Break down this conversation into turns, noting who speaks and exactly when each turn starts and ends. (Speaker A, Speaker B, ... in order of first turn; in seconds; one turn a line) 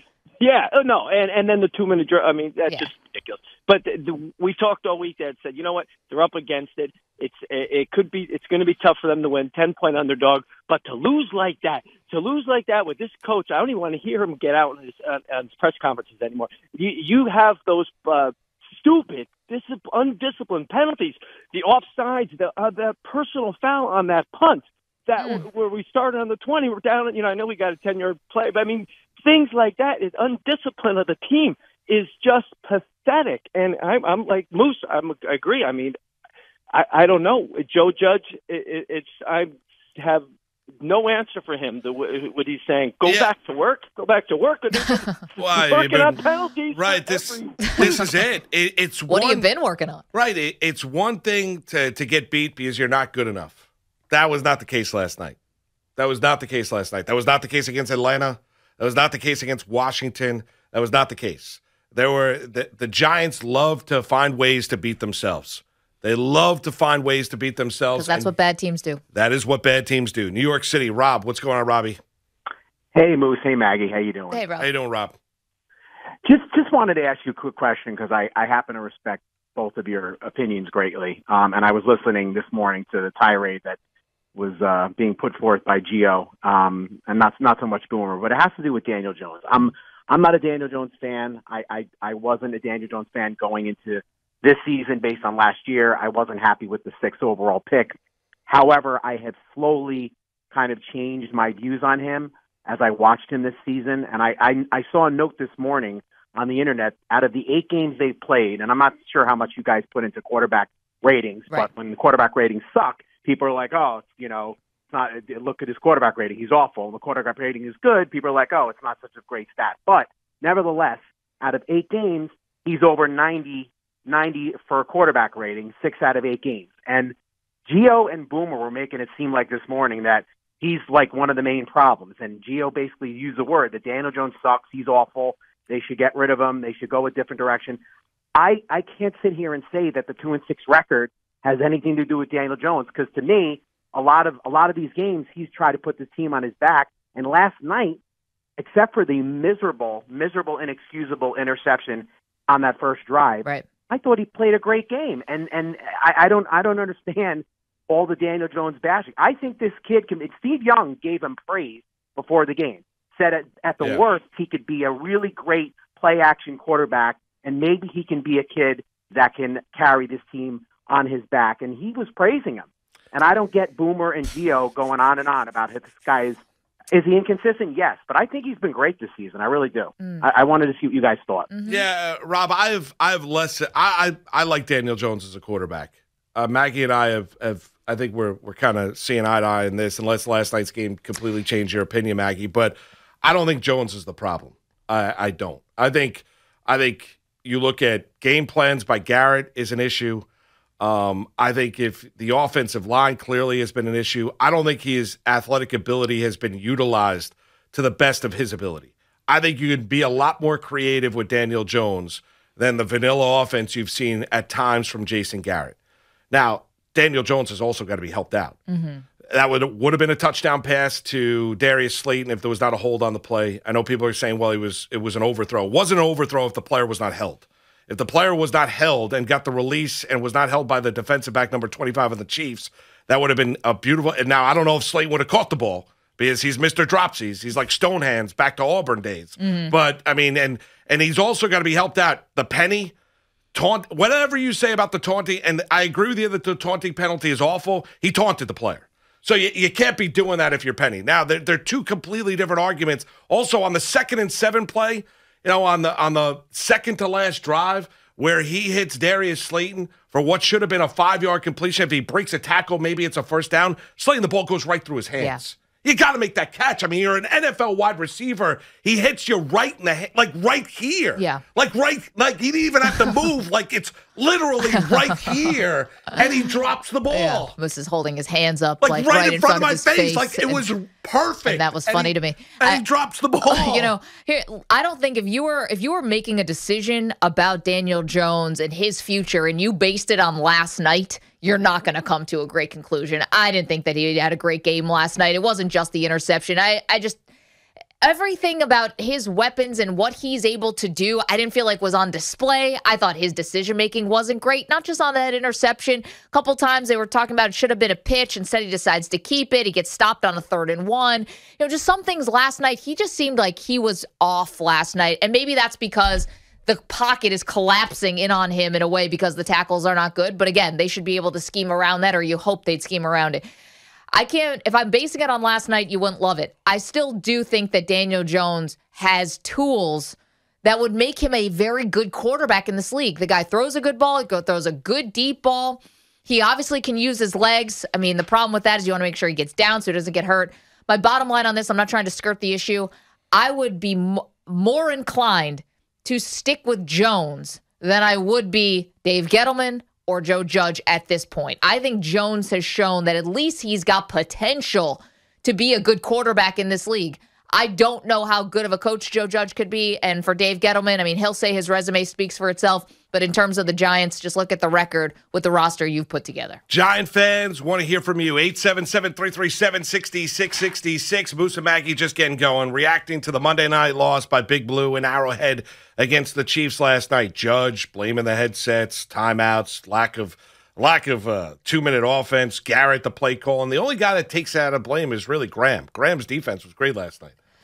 Speaker A: 0.4-36.0
Speaker B: 25.2-25.4
Speaker A: 36.7-40.2
Speaker A: 40.8-48.0
Speaker C: 43.0-43.3
Speaker C: 45.4-46.2
Speaker C: 46.7-49.5
Speaker B: 49.1-50.0
Speaker C: 50.1-53.6
Speaker C: 54.1-55.4
Speaker C: 56.0-68.3
Speaker B: 68.0-69.0
Speaker C: 69.1-72.0
Speaker D: 73.0-74.4
Speaker B: 74.3-74.7
Speaker C: 74.6-75.2
Speaker D: 76.2-83.8
Speaker D: 84.3-98.0
Speaker D: 98.5-127.1
Speaker D: 127.7-137.8
Speaker D: 138.4-148.0
Speaker D: 148.6-176.4
Speaker D: 176.9-181.5
Speaker B: 181.5-181.9
Speaker C: 181.6-200.3
Speaker C: 200.8-215.8
Speaker C: 216.3-218.6
Speaker B: 218.7-219.1
Speaker C: 219.3-242.9
Speaker B: 239.4-239.8
Speaker C: 243.5-277.5
Speaker B: 271.2-271.4
Speaker B: 277.1-280.7
Speaker C: 278.8-283.9
Speaker B: 281.4-282.8
Speaker B: 283.4-297.2
Speaker B: 298.0-323.4
Speaker B: 324.1-366.6
Speaker C: 366.7-387.3